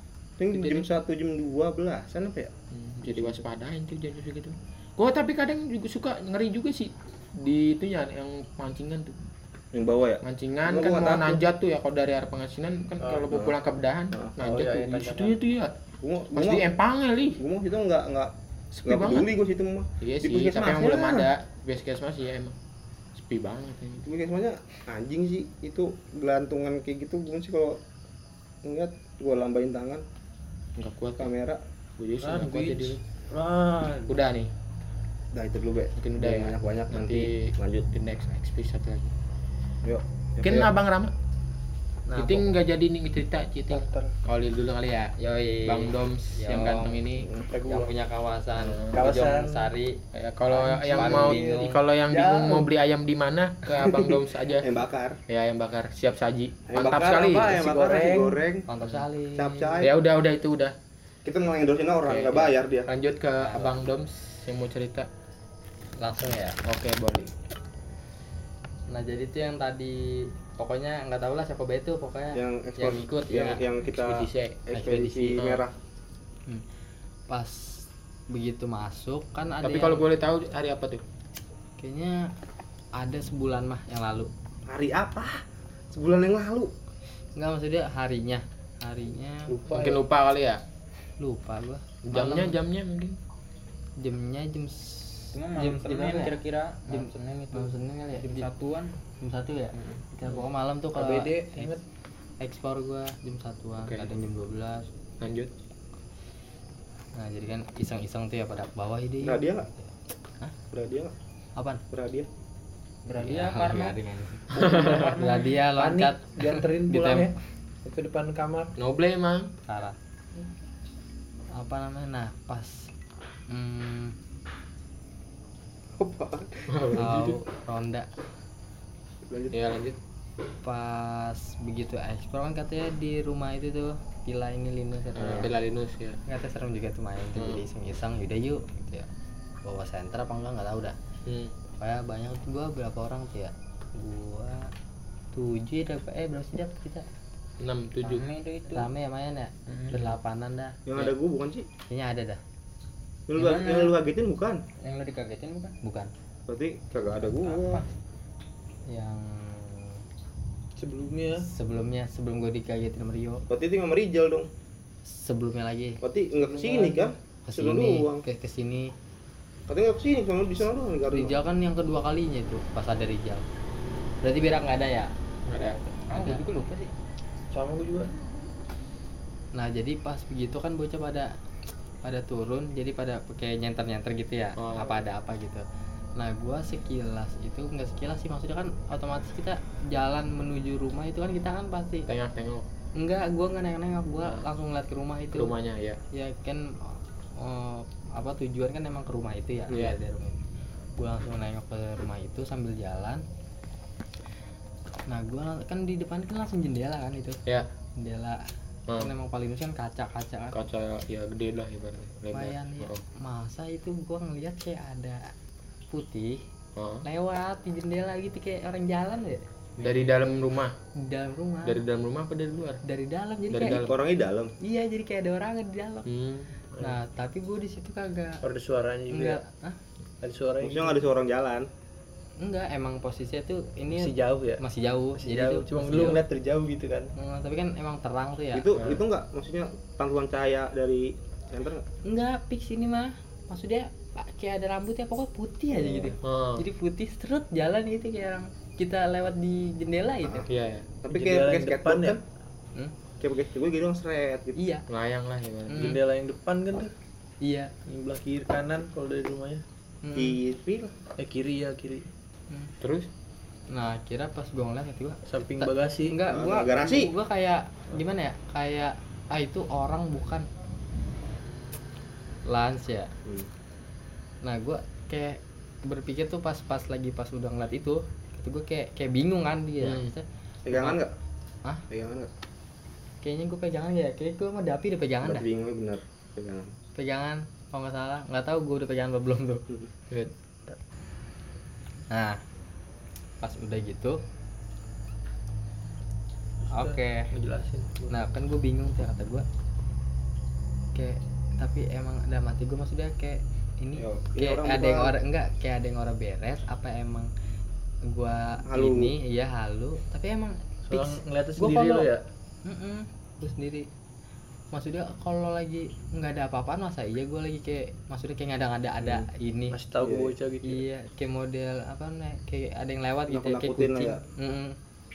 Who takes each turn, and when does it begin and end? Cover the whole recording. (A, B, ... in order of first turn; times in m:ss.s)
0:00.4-0:02.5 A
0:00.5-0:00.8 B
0:02.7-0:09.1 B
0:03.0-0:03.4 A
0:09.7-0:11.4 A
0:10.2-0:15.7 B
0:13.0-0:13.3 C
0:14.4-0:15.4 C
0:16.0-0:16.6 A
0:16.3-0:17.4 B
0:17.4-0:21.3 A
0:18.8-0:19.3 B
0:20.0-0:22.5 B
0:23.2-0:24.0 B
0:24.0-0:27.8 A
0:28.6-0:30.0 A
0:30.8-0:31.3 B
0:31.2-0:31.6 A
0:32.0-0:33.0 B
0:32.2-0:34.1 C
0:34.1-0:34.5 B
0:35.3-0:37.9 A
0:36.0-0:39.1 B
0:39.8-0:40.7 A
0:40.4-0:41.1 B
0:42.1-0:42.5 D
0:42.2-0:45.1 B
0:43.7-0:44.1 C
0:45.2-0:47.0 D
0:45.6-0:47.3 B
0:47.2-0:47.5 A
0:47.4-0:47.9 C
0:47.6-0:51.8 D
0:48.6-0:49.0 B
0:48.9-0:49.7 C
0:50.1-0:54.7 B
0:50.9-0:51.5 C
0:52.1-0:52.7 C
0:53.7-0:55.2 A
0:55.3-0:57.6 B
0:56.7-0:58.7 A
0:57.0-0:58.4 C
0:58.7-0:59.8 D
0:59.3-0:59.9 A
0:59.8-1:00.7 B
1:01.2-1:02.9 A
1:02.1-1:05.1 B
1:03.4-1:03.7 D
1:06.0-1:06.6 D
1:06.6-1:07.3 B
1:08.9-1:13.6 D
1:12.3-1:15.7 A
1:13.8-1:14.6 B
1:14.7-1:15.4 D
1:15.2-1:15.6 B
1:17.3-1:20.0 D
1:19.6-1:21.0 B
1:21.8-1:22.3 D
1:23.0-1:24.3 D
1:24.6-1:26.7 A
1:27.4-1:29.6 D
1:29.5-1:30.0 C
1:29.7-1:30.6 B
1:31.2-1:32.6 D
1:32.0-1:33.2 B
1:34.0-1:36.4 D
1:35.3-1:38.9 E
1:36.9-1:38.5 D
1:39.2-1:41.8 D
1:40.9-1:41.8 C
1:42.4-1:44.9 D
1:43.8-1:44.1 B
1:45.2-1:45.5 B
1:47.1-1:49.9 D
1:49.2-1:49.7 A
1:50.7-1:51.1 A
1:51.6-1:51.8 D
1:51.9-1:52.3 A
1:53.0-1:54.0 E
1:53.2-1:57.3 D
1:54.5-1:58.7 C
1:54.5-1:55.1 B
1:58.8-1:59.5 B
1:59.6-2:00.0 D
2:01.5-2:02.9 D
2:03.5-2:04.2 D
2:06.0-2:06.9 A
2:06.7-2:07.4 B
2:06.9-2:08.1 D
2:09.3-2:09.6 A
2:09.5-2:10.0 B
2:10.6-2:15.5 D
2:15.2-2:16.2 B
2:16.3-2:19.1 D
2:17.4-2:17.6 B
2:19.6-2:21.0 D
2:21.2-2:21.5 B
2:21.8-2:24.7 D
2:25.3-2:27.0 D
2:27.6-2:28.2 B
2:28.0-2:28.9 E
2:28.7-2:30.8 D
2:29.7-2:30.0 E
2:30.8-2:31.7 A
2:31.9-2:32.4 D
2:33.3-2:34.6 A
2:33.3-2:34.0 E
2:34.8-2:35.7 E
2:35.8-2:36.1 D
2:36.5-2:37.8 A
2:37.4-2:37.8 E
2:38.9-2:40.0 D
2:40.8-2:41.4 C
2:41.4-2:43.4 D
2:43.5-2:44.5 A
2:45.0-2:46.0 D
2:46.0-2:48.2 A
2:47.4-2:48.9 D
2:49.7-2:51.4 A
2:51.1-2:53.4 D
2:54.2-2:55.1 D
2:55.5-2:55.8 B
2:56.1-2:56.9 E
2:56.1-2:56.4 D
2:57.5-2:58.1 C
2:59.5-3:01.3 D
3:02.0-3:05.6 D
3:04.6-3:05.0 B
3:06.2-3:12.1 D
3:12.1-3:12.7 B
3:13.0-3:15.5 D
3:15.3-3:16.0 B
3:16.1-3:20.4 D
3:21.0-3:23.2 D
3:25.1-3:27.4 D
3:28.0-3:28.4 D
3:29.0-3:30.6 D
3:30.5-3:33.0 B
3:32.3-3:35.3 D
3:35.9-3:36.4 D
3:36.8-3:37.0 B
3:37.0-3:39.4 D
3:39.8-3:40.1 C
3:39.8-3:40.7 B
3:41.0-3:41.8 D
3:41.6-3:42.8 B
3:42.8-3:43.9 D
3:43.5-3:44.0 B
3:43.8-3:44.5 A
3:44.6-3:46.1 D
3:46.0-3:46.5 B
3:46.8-3:48.4 D
3:48.4-3:49.4 C
3:49.1-3:49.8 D
3:50.2-3:51.0 C
3:50.6-3:51.7 A
3:52.4-3:56.2 D
3:53.9-3:54.6 C
3:55.2-3:57.1 C
3:57.2-3:58.7 D
3:58.5-4:01.8 A
3:58.8-3:59.0 B
4:02.0-4:10.5 D
4:05.7-4:06.2 A
4:06.2-4:06.6 B
4:10.5-4:10.9 B
4:11.0-4:12.2 A
4:11.1-4:12.2 C
4:13.2-4:14.6 A
4:14.6-4:14.8 D
4:14.9-4:16.0 B
4:15.7-4:16.0 D
4:15.7-4:16.9 C
4:17.4-4:17.7 D
4:17.8-4:19.6 C
4:20.0-4:20.4 D
4:20.1-4:20.9 A
4:21.2-4:22.1 C
4:22.8-4:23.1 B
4:23.7-4:30.5 D
4:25.3-4:26.2 C
4:26.3-4:27.1 A
4:32.4-4:33.1 D
4:33.2-4:33.5 A
4:34.4-4:41.0 D
4:39.8-4:40.1 B
4:40.6-4:41.1 A
4:41.9-4:42.3 A
4:43.2-4:45.4 D
4:45.2-4:46.7 A
4:47.0-4:49.7 D
4:52.1-4:52.4 D
4:53.4-4:54.2 D
4:56.6-4:58.2 C
4:56.7-4:57.3 D
4:58.1-4:59.4 D
5:00.9-5:07.3 D
5:04.0-5:05.2 A
5:08.1-5:12.1 D
5:08.6-5:09.1 A
5:10.9-5:12.2 C
5:12.6-5:13.9 D
5:14.7-5:19.8 D
5:19.7-5:20.8 C
5:20.0-5:20.3 A
5:20.6-5:24.8 D
5:23.3-5:24.2 A